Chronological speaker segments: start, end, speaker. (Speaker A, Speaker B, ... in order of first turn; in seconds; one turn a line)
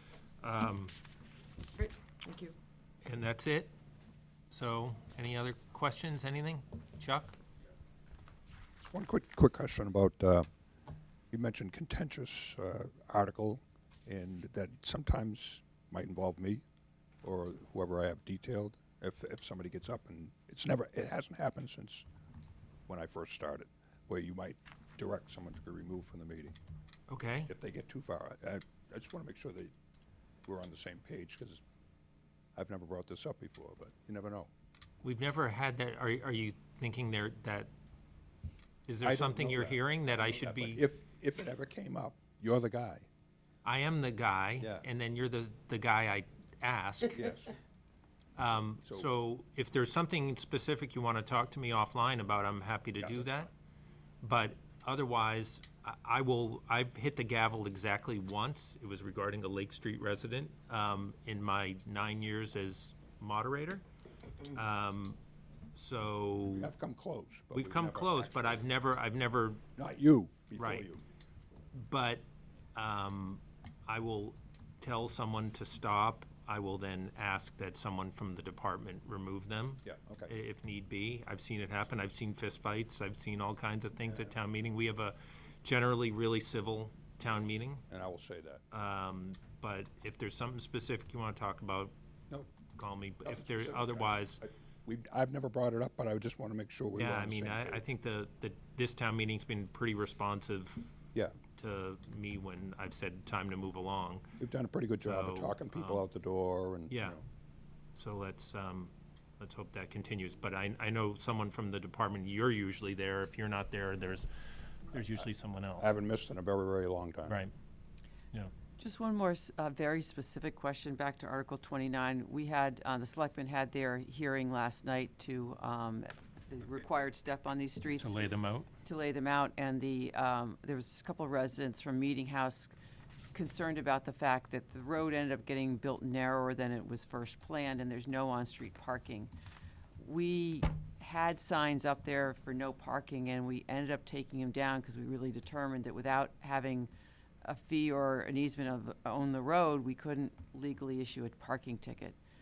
Speaker A: 0.4-0.9
Speaker B: 1.8-2.5
Speaker A: 3.0-3.7
Speaker A: 4.5-7.3
Speaker C: 8.8-10.5
Speaker C: 11.3-16.6
Speaker C: 17.2-22.1
Speaker C: 22.9-26.6
Speaker A: 27.1-27.5
Speaker C: 27.5-29.7
Speaker C: 30.5-31.6
Speaker C: 32.6-34.5
Speaker A: 35.0-37.7
Speaker A: 38.9-40.8
Speaker C: 39.0-43.1
Speaker A: 43.6-47.3
Speaker C: 44.6-44.9
Speaker C: 47.2-47.5
Speaker A: 48.4-53.5
Speaker C: 48.8-49.1
Speaker C: 53.0-53.5
Speaker A: 54.2-63.8
Speaker A: 64.5-65.2
Speaker A: 65.7-66.7
Speaker C: 66.5-68.6
Speaker A: 67.5-69.6
Speaker C: 69.8-71.0
Speaker A: 70.6-70.9
Speaker A: 71.7-87.8
Speaker C: 79.8-80.3
Speaker C: 87.9-88.6
Speaker A: 88.7-91.9
Speaker A: 92.8-94.4
Speaker C: 93.2-97.8
Speaker A: 97.0-100.9
Speaker A: 101.5-104.2
Speaker C: 104.4-107.2
Speaker A: 105.0-106.0
Speaker A: 106.9-107.2
Speaker A: 108.0-115.9
Speaker C: 115.8-117.4
Speaker B: 118.8-128.3
Speaker A: 128.0-128.7
Speaker B: 128.8-132.7
Speaker B: 133.3-139.3
Speaker B: 140.0-146.9
Speaker B: 147.4-152.2